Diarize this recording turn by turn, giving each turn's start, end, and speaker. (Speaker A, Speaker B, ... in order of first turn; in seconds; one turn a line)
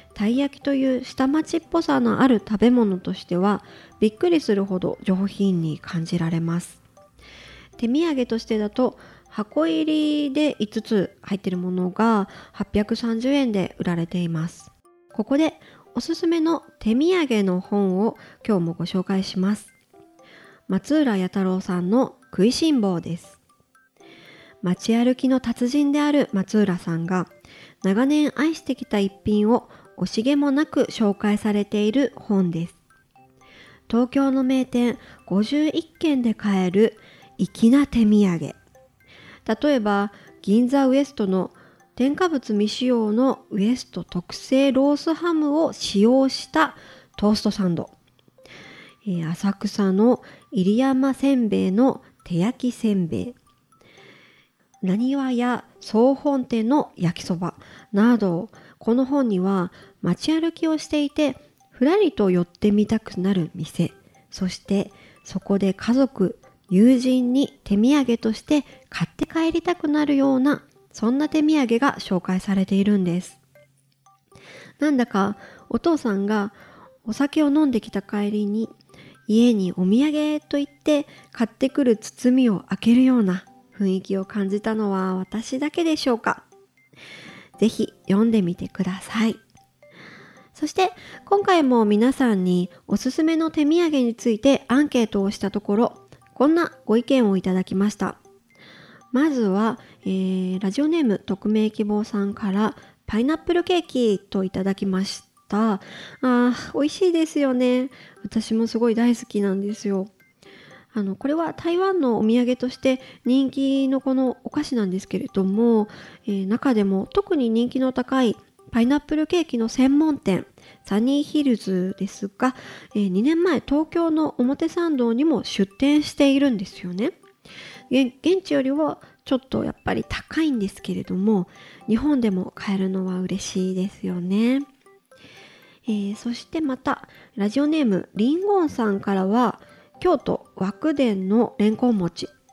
Speaker A: 0.1-6.8
Speaker A: 7.8-19.7
Speaker A: 20.7-23.4
Speaker A: 24.6-27.3
Speaker A: 27.8-32.8
Speaker A: 33.9-38.6
Speaker A: 39.5-47.9
Speaker A: 49.0-53.4
Speaker A: 54.8-73.4
Speaker A: 74.8-78.8
Speaker A: 79.3-86.5
Speaker A: 87.6-89.4
Speaker A: 90.5-98.2
Speaker A: 99.1-110.1
Speaker A: 110.9-127.2
Speaker A: 127.9-134.7
Speaker A: 135.9-142.3